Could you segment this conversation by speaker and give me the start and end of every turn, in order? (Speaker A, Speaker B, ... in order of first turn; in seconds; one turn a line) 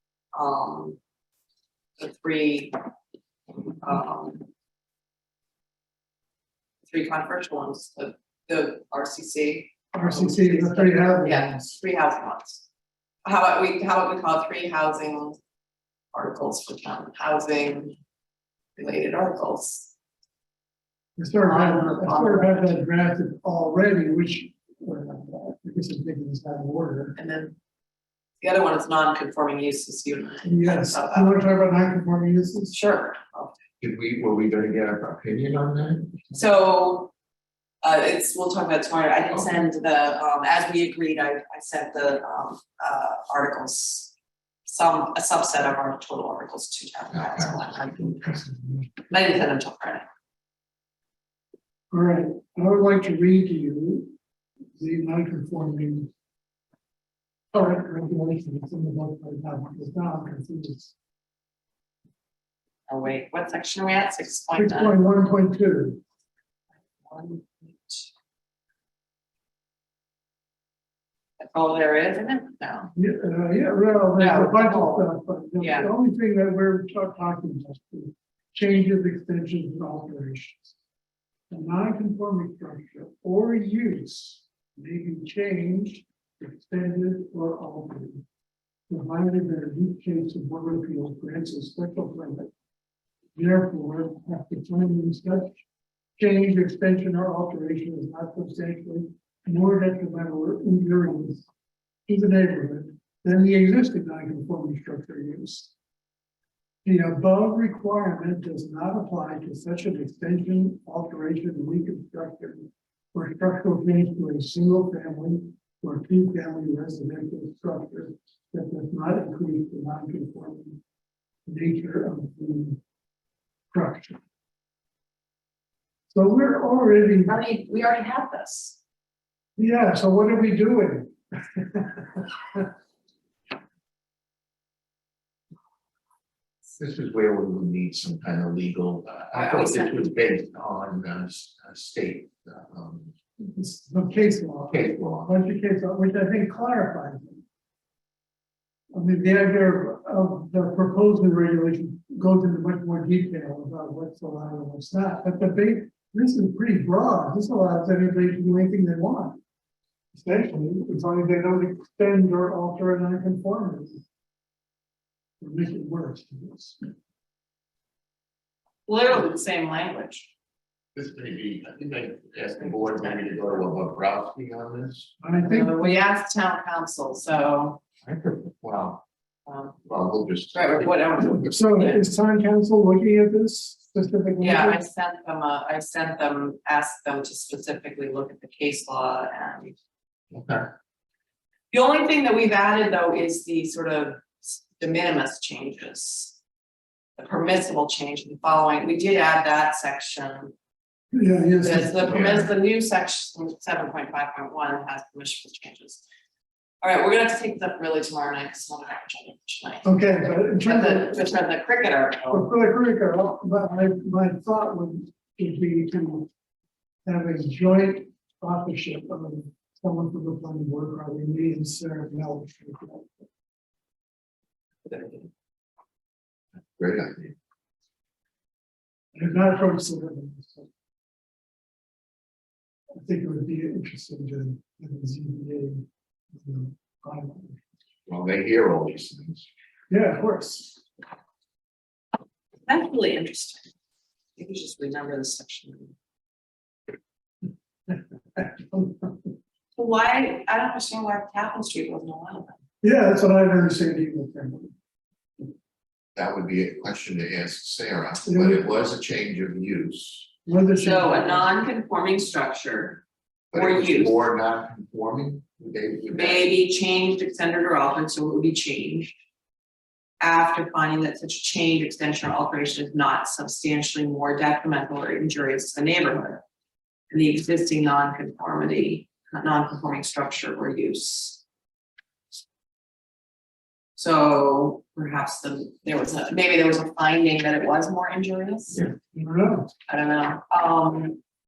Speaker A: 0.3-1.0
Speaker A: 2.0-2.8
Speaker A: 3.8-4.5
Speaker A: 6.8-12.6
Speaker B: 9.9-11.8
Speaker A: 13.2-15.4
Speaker A: 16.1-17.9
Speaker A: 18.8-19.9
Speaker B: 21.2-27.2
Speaker A: 21.4-22.8
Speaker A: 27.2-27.6
Speaker A: 28.4-31.4
Speaker B: 30.4-32.8
Speaker A: 32.7-33.5
Speaker C: 33.8-36.3
Speaker A: 36.3-37.1
Speaker A: 37.8-44.1
Speaker A: 44.7-48.2
Speaker C: 47.1-47.6
Speaker B: 48.0-48.9
Speaker A: 49.1-50.0
Speaker B: 51.9-54.1
Speaker B: 54.8-56.1
Speaker B: 57.5-60.9
Speaker A: 62.9-65.0
Speaker B: 64.5-66.0
Speaker A: 67.0-68.1
Speaker A: 71.4-72.9
Speaker B: 72.9-80.7
Speaker A: 74.2-75.9
Speaker B: 81.5-88.2
Speaker B: 88.9-92.5
Speaker B: 93.3-95.6
Speaker B: 96.2-101.5
Speaker B: 102.1-105.7
Speaker B: 106.8-120.8
Speaker B: 121.5-122.8
Speaker B: 123.7-124.2
Speaker B: 126.1-127.4
Speaker A: 127.2-128.8
Speaker B: 129.6-132.7
Speaker C: 136.7-143.1
Speaker A: 139.3-140.1
Speaker B: 143.4-147.4
Speaker C: 144.7-145.3
Speaker B: 148.9-159.4
Speaker B: 160.1-164.0
Speaker B: 165.4-166.8
Speaker A: 168.9-170.3
Speaker C: 170.9-175.1
Speaker A: 172.6-173.2
Speaker B: 175.2-176.0
Speaker A: 175.4-177.8
Speaker C: 178.0-179.0
Speaker A: 179.5-179.8
Speaker C: 179.8-181.5
Speaker A: 180.5-182.0
Speaker B: 181.2-184.8
Speaker A: 184.4-189.8
Speaker C: 190.3-190.7
Speaker A: 191.7-196.4
Speaker A: 197.2-200.5
Speaker B: 201.1-202.4
Speaker A: 201.6-206.0
Speaker C: 202.0-202.4
Speaker A: 206.8-209.9
Speaker B: 209.8-211.3
Speaker A: 210.6-212.5
Speaker B: 212.3-216.3
Speaker B: 217.1-223.1
Speaker C: 226.8-227.3
Speaker B: 229.2-230.7
Speaker B: 233.0-237.6
Speaker C: 238.1-239.5
Speaker B: 239.9-240.8
Speaker A: 242.7-243.7
Speaker A: 244.4-245.9
Speaker B: 247.9-249.1
Speaker A: 249.8-252.6
Speaker B: 252.8-254.7
Speaker C: 256.2-260.3
Speaker B: 258.2-258.6
Speaker B: 260.4-261.5
Speaker A: 260.8-264.2
Speaker C: 263.5-266.5
Speaker A: 266.1-269.1
Speaker A: 270.2-276.4
Speaker A: 277.1-281.4
Speaker A: 283.9-288.8
Speaker C: 288.7-288.9
Speaker B: 289.1-289.7
Speaker A: 289.9-291.2